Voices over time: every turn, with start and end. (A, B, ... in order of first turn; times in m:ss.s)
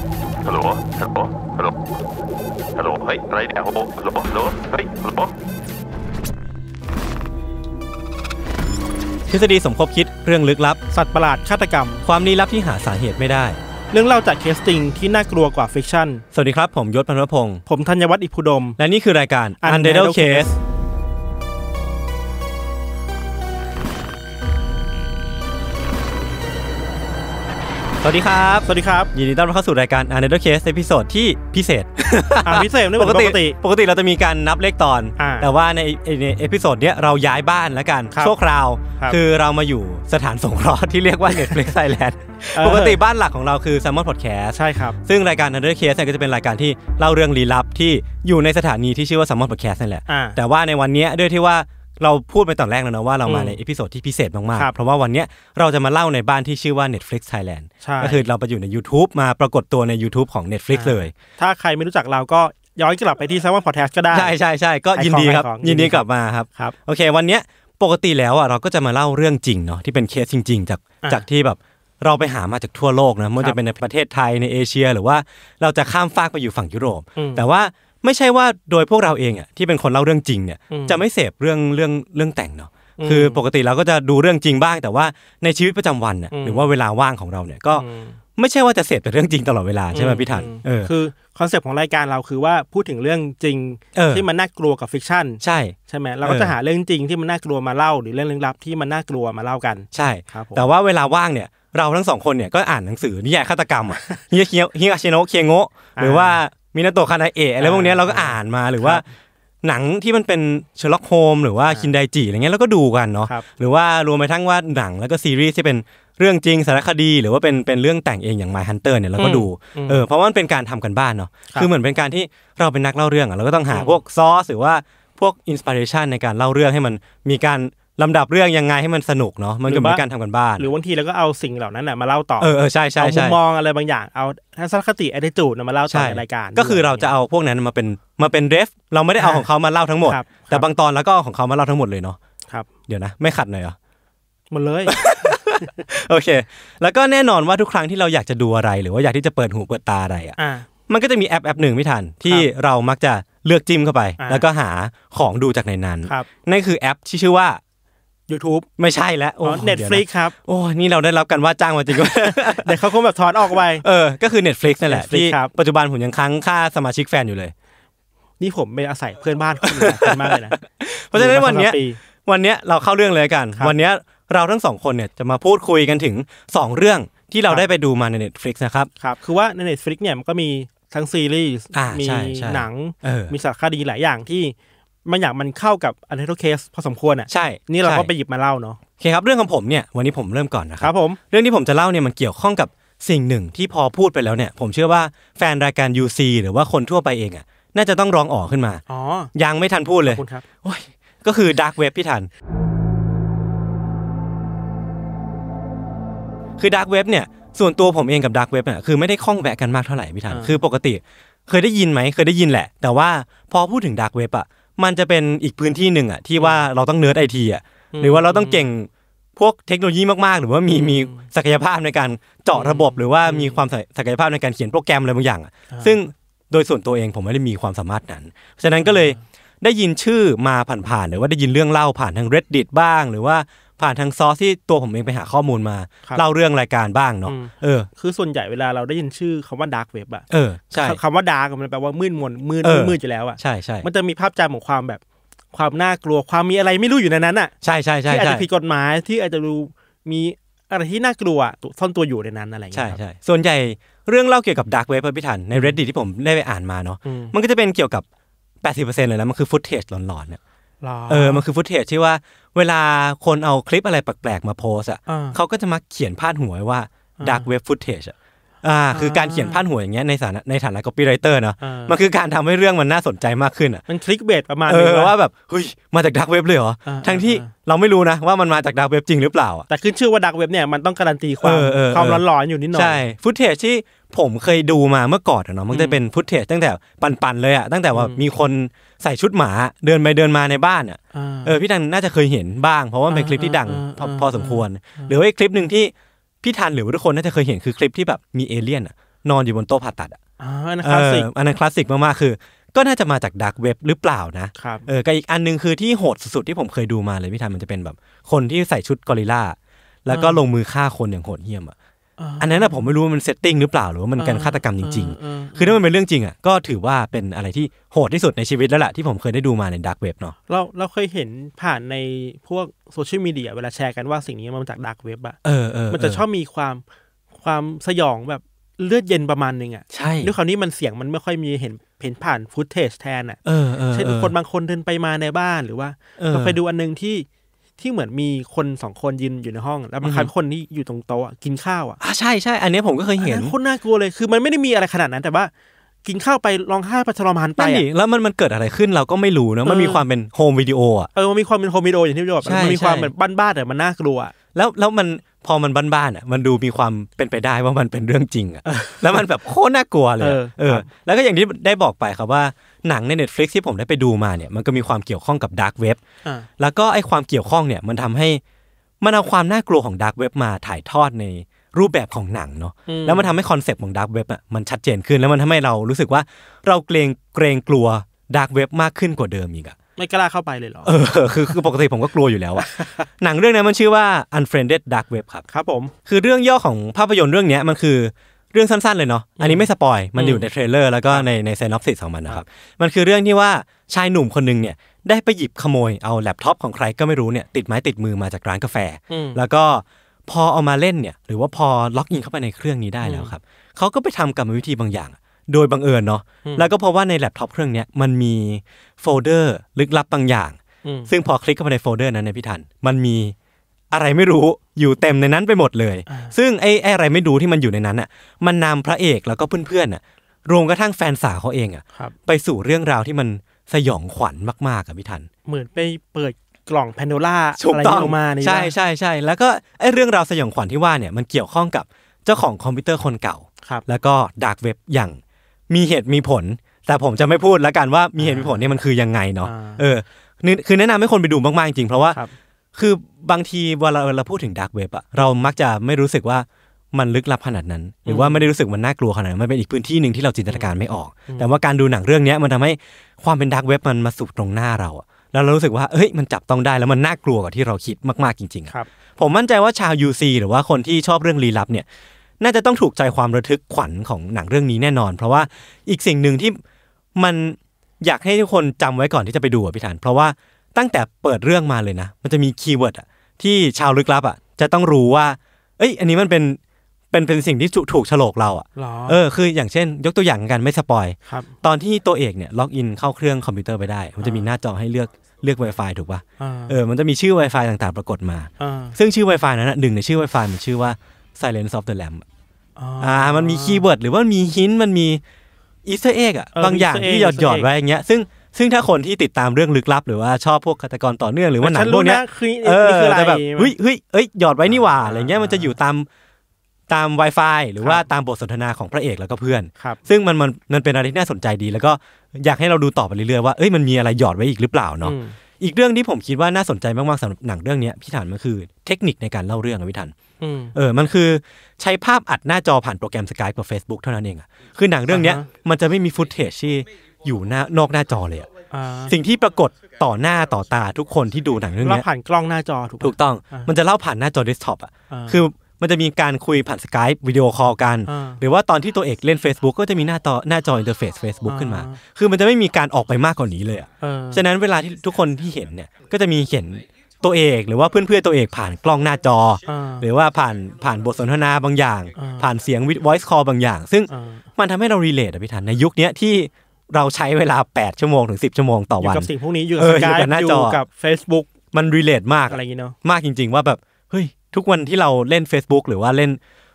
0:00.4-0:01.7 A
0:02.7-0:05.3 A
0:09.3-0:10.8 B
0:10.9-0:12.0 C
0:12.0-0:13.6 B
0:13.9-0:16.2 C
0:16.3-0:17.6 B
0:17.7-0:18.8 C
0:18.8-0:20.5 B
0:19.6-0:20.6 C
0:28.0-1:01.1 B
0:28.6-0:29.1 C
0:32.4-0:33.6 C
0:35.2-0:35.5 C
0:41.3-0:41.6 C
0:42.6-0:43.0 C
0:44.5-0:45.0 C
0:50.1-0:50.4 C
0:53.2-0:53.6 C
0:57.8-0:58.2 C
1:00.7-1:04.3 C
1:04.1-1:27.8 B
1:04.9-1:06.7 C
1:17.2-1:17.4 C
1:20.7-1:21.0 C
1:23.0-1:23.4 C
1:26.3-1:26.7 C
1:27.7-1:28.2 C
1:28.4-1:30.9 B
1:29.9-1:40.6 C
1:33.9-1:34.2 B
1:35.4-1:36.6 B
1:39.9-1:49.0 B
1:46.0-1:46.4 C
1:47.6-1:49.0 C
1:49.6-2:10.7 B
1:59.2-2:00.0 C
2:03.7-2:04.0 C
2:09.7-2:10.0 C
2:10.6-2:17.1 C
2:12.4-2:13.4 B
2:15.9-2:22.2 B
2:19.2-2:19.5 C
2:20.0-2:20.7 C
2:22.9-2:23.8 B
2:24.5-2:25.7 C
2:24.9-2:37.6 B
2:30.4-2:30.7 C
2:34.2-2:34.4 C
2:38.3-2:38.7 C
2:38.8-2:42.8 B
2:39.4-2:40.3 C
2:41.9-2:43.8 C
2:43.8-2:47.5 B
2:44.8-2:45.5 C
2:48.4-2:50.6 C
2:49.6-2:58.9 B
2:51.1-2:52.0 C
2:59.0-3:04.5 C
3:01.7-3:03.3 B
3:05.0-3:08.8 C
3:07.3-3:08.1 B
3:09.0-3:18.8 B
3:10.8-3:11.2 C
3:18.9-3:19.3 C
3:19.3-3:22.3 B
3:20.0-3:20.5 C
3:26.6-3:57.9 B
3:30.3-3:30.6 C
3:36.4-3:36.6 C
3:37.9-3:38.7 C
3:40.7-3:41.2 C
3:42.5-3:43.6 C
3:45.7-3:46.0 C
3:48.8-3:49.2 C
3:57.2-4:05.0 C
4:00.3-4:01.0 B
4:02.6-4:03.9 B
4:05.5-4:07.5 C
4:07.6-4:08.5 B
4:08.1-4:13.0 C
4:12.7-4:18.0 B
4:17.0-4:17.3 C
4:18.6-4:20.4 B
4:20.8-4:21.4 C
4:21.1-4:33.8 B
4:25.1-4:25.4 C
4:27.2-4:27.5 C
4:28.9-4:29.6 C
4:31.6-4:32.0 C
4:33.9-4:35.1 C
4:34.7-4:39.7 B
4:36.8-4:37.5 C
4:39.7-4:43.0 C
4:41.4-5:00.2 B
4:45.7-4:46.0 C
4:47.9-4:48.2 C
4:51.1-4:51.6 C
4:53.1-4:55.2 C
5:00.4-5:01.3 C
5:00.8-5:11.7 B
5:04.6-5:04.9 C
5:10.1-5:10.4 C
5:12.2-5:12.8 C
5:12.4-5:20.3 B
5:14.2-5:15.8 C
5:20.5-5:25.4 C
5:25.4-5:26.2 B
5:25.9-5:26.8 C
5:27.4-5:33.4 C
5:29.9-5:30.3 B
5:33.4-5:34.3 B
5:33.9-5:37.3 C
5:36.2-5:36.6 B
5:37.8-5:42.0 C
5:40.0-5:40.3 B
5:42.0-5:43.5 B
5:43.2-5:45.5 C
5:46.0-5:47.8 C
5:47.6-5:51.1 B
5:49.6-5:50.0 C
5:51.1-5:54.3 C
5:52.4-5:53.1 B
5:54.5-6:06.0 B
5:58.7-5:59.2 C
6:00.2-6:00.9 C
6:06.6-6:08.4 B
6:09.0-6:19.8 B
6:12.9-6:13.3 C
6:20.0-6:21.7 C
6:20.8-6:25.4 B
6:22.6-6:23.0 C
6:25.5-6:25.9 C
6:26.1-6:53.3 B
6:29.4-6:30.5 C
6:39.1-6:39.4 C
6:43.0-6:43.3 C
6:50.8-6:51.1 C
6:53.9-7:05.3 B
6:56.1-6:56.3 C
7:05.4-7:08.7 C
7:07.6-7:15.2 B
7:15.7-7:22.2 B
7:18.2-7:18.8 C
7:19.4-7:19.8 C
7:22.7-7:41.8 B
7:28.0-7:28.5 C
7:31.3-7:31.6 C
7:42.4-7:46.6 B
7:47.2-7:56.6 B
7:57.1-8:12.2 B
7:58.8-7:59.2 C
8:01.3-8:01.5 C
8:04.2-8:04.5 C
8:06.4-8:06.8 C
8:08.6-8:09.0 C
8:12.8-8:13.9 C
8:13.0-8:15.2 B
8:15.8-8:26.1 B
8:16.5-8:17.7 C
8:21.6-8:23.7 C
8:24.7-8:25.8 C
8:26.9-8:40.1 B
8:35.0-8:35.3 C
8:40.4-8:40.7 C
8:40.7-8:48.5 B
8:45.1-8:45.4 C
8:48.7-8:49.2 C
8:49.0-8:52.1 B
8:51.8-8:53.7 C
8:53.0-9:20.8 B
8:55.1-8:55.4 C
8:58.1-8:58.4 C
9:01.4-9:02.0 C
9:04.0-9:04.4 C
9:09.6-9:10.1 C
9:12.1-9:12.5 C
9:14.1-9:14.4 C
9:19.0-9:21.5 C
9:21.7-9:26.4 B
9:22.5-9:22.9 C